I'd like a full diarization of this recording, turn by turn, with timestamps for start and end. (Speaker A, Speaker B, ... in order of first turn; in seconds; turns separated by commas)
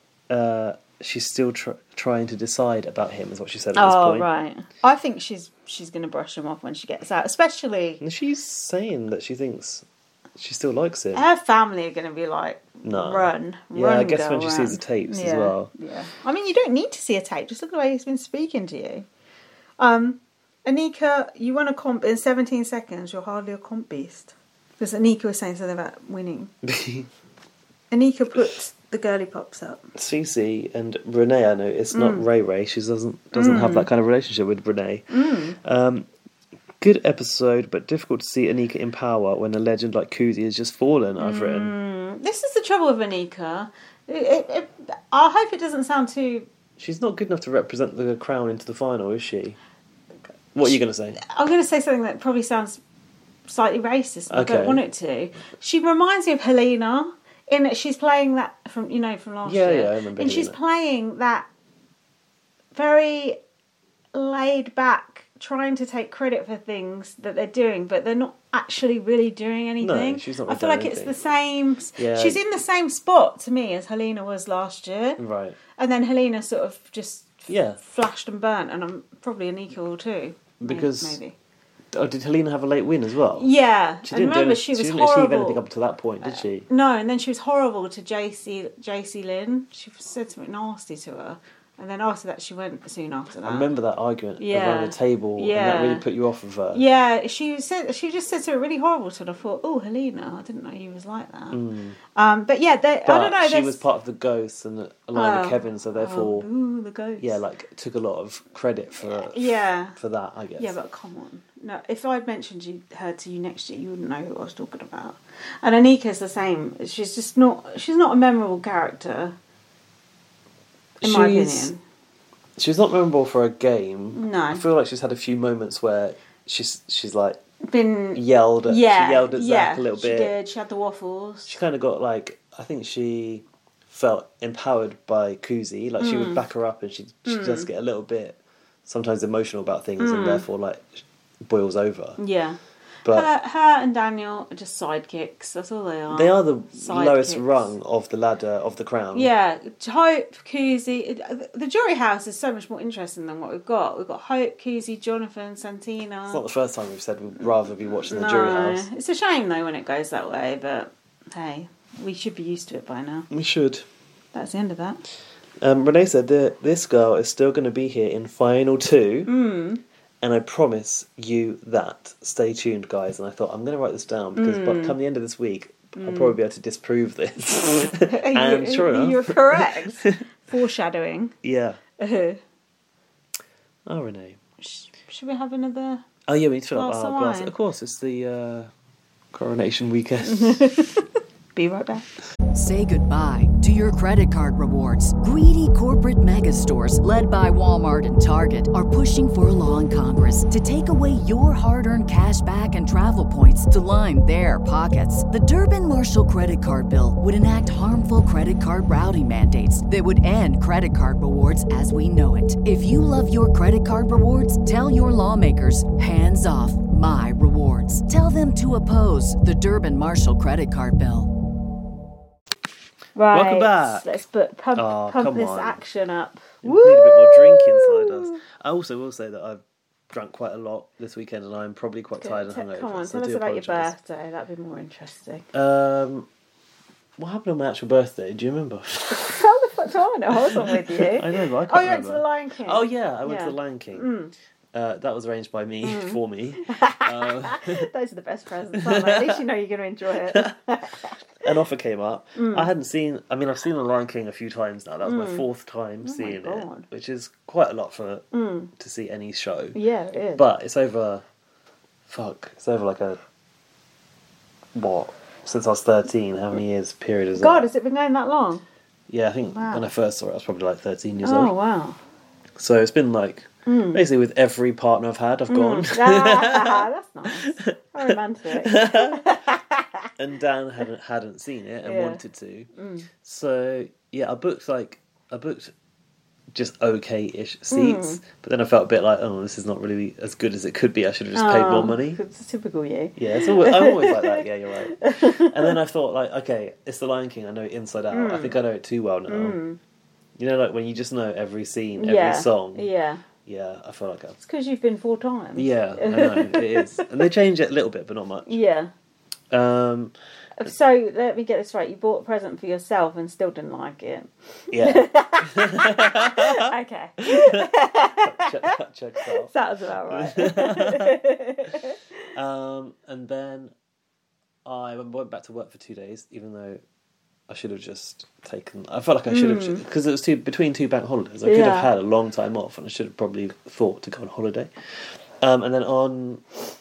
Speaker A: 0.3-4.3, Speaker B: 3.8-8.0, Speaker A: 8.0-9.8, Speaker A: 10.4-11.2, Speaker B: 11.1-19.1, Speaker A: 12.8-15.7, Speaker B: 19.8-26.5, Speaker A: 26.6-27.1, Speaker B: 27.9-29.9, Speaker A: 29.9-36.1, Speaker B: 31.9-32.2, Speaker B: 33.3-33.9, Speaker B: 35.1-35.6, Speaker A: 36.8-41.7, Speaker B: 41.2-46.5, Speaker A: 46.8-49.6, Speaker A: 50.5-51.2, Speaker B: 51.2-52.8, Speaker B: 53.5-61.5, Speaker A: 54.3-54.8, Speaker A: 59.4-60.6, Speaker B: 62.7-63.4, Speaker B: 64.1-75.2, Speaker A: 69.8-71.2, Speaker A: 72.0-72.4, Speaker A: 75.2-75.6, Speaker B: 75.8-81.3, Speaker A: 77.5-77.8, Speaker A: 80.6-81.2, Speaker A: 81.9-83.5, Speaker B: 83.3-85.6, Speaker A: 84.0-86.7, Speaker B: 86.2-93.7, Speaker A: 93.4-96.8, Speaker B: 94.4-96.0, Speaker B: 96.7-101.6, Speaker A: 101.5-102.0, Speaker B: 102.2-103.8, Speaker A: 103.1-106.5, Speaker B: 105.2-107.4, Speaker A: 107.2-110.8, Speaker B: 109.1-110.0, Speaker B: 110.6-119.4, Speaker A: 121.0-121.7, Speaker B: 121.0-121.8, Speaker A: 122.6-127.4, Speaker B: 124.1-124.6, Speaker B: 127.6-131.6, Speaker A: 128.1-130.3, Speaker A: 131.5-142.2, Speaker B: 136.0-136.4, Speaker B: 137.2-137.7, Speaker B: 140.0-140.4, Speaker B: 142.2-142.6, Speaker A: 143.0-143.3, Speaker B: 143.1-147.7, Speaker A: 146.1-149.3, Speaker B: 149.1-156.4, Speaker A: 156.3-158.9, Speaker B: 158.0-163.3, Speaker A: 163.3-163.9, Speaker B: 164.3-165.1, Speaker A: 165.6-169.3, Speaker B: 169.3-169.8, Speaker A: 170.2-180.2, Speaker B: 174.4-175.0, Speaker B: 176.0-176.4, Speaker B: 178.1-181.3, Speaker A: 181.4-181.8, Speaker B: 182.0-182.4, Speaker A: 183.9-184.4, Speaker B: 184.6-186.1, Speaker A: 186.3-188.7, Speaker B: 186.7-187.5, Speaker A: 189.3-190.7, Speaker B: 190.2-192.1, Speaker C: 192.5-221.3, Speaker B: 223.2-228.4, Speaker A: 223.3-224.1, Speaker A: 224.8-225.8, Speaker A: 226.6-233.9, Speaker B: 232.2-235.5, Speaker A: 235.5-236.3, Speaker A: 237.2-239.5, Speaker B: 239.1-244.3, Speaker A: 240.3-244.1, Speaker A: 244.7-247.9, Speaker B: 245.8-251.5, Speaker A: 248.7-249.4, Speaker A: 250.3-250.6, Speaker A: 251.4-259.8, Speaker B: 252.4-252.7, Speaker B: 255.0-255.4, Speaker B: 256.0-256.9, Speaker B: 258.3-258.7, Speaker B: 259.8-260.4, Speaker A: 260.4-261.2, Speaker A: 262.1-263.2, Speaker A: 264.7-267.7, Speaker B: 267.4-268.6, Speaker A: 269.1-271.5, Speaker B: 269.5-269.9, Speaker B: 271.2-272.0, Speaker A: 272.6-279.4, Speaker B: 273.7-274.0, Speaker B: 275.5-280.1, Speaker A: 280.2-282.7, Speaker B: 281.8-282.2, Speaker B: 282.8-283.1, Speaker A: 283.2-285.7, Speaker A: 286.5-292.2, Speaker B: 287.7-288.2, Speaker B: 291.3-295.8, Speaker A: 293.2-299.6, Speaker B: 298.1-298.6, Speaker B: 299.3-299.8, Speaker A: 300.4-302.9, Speaker B: 302.0-303.2, Speaker A: 303.4-304.4, Speaker B: 304.4-307.1, Speaker A: 305.6-308.6, Speaker B: 308.5-308.9, Speaker A: 309.5-310.1, Speaker B: 310.6-322.0, Speaker A: 314.7-317.7, Speaker A: 318.2-319.5, Speaker A: 320.1-321.2, Speaker A: 322.3-323.7, Speaker A: 324.6-326.8, Speaker A: 327.5-336.6, Speaker B: 329.3-329.8, Speaker B: 331.4-331.9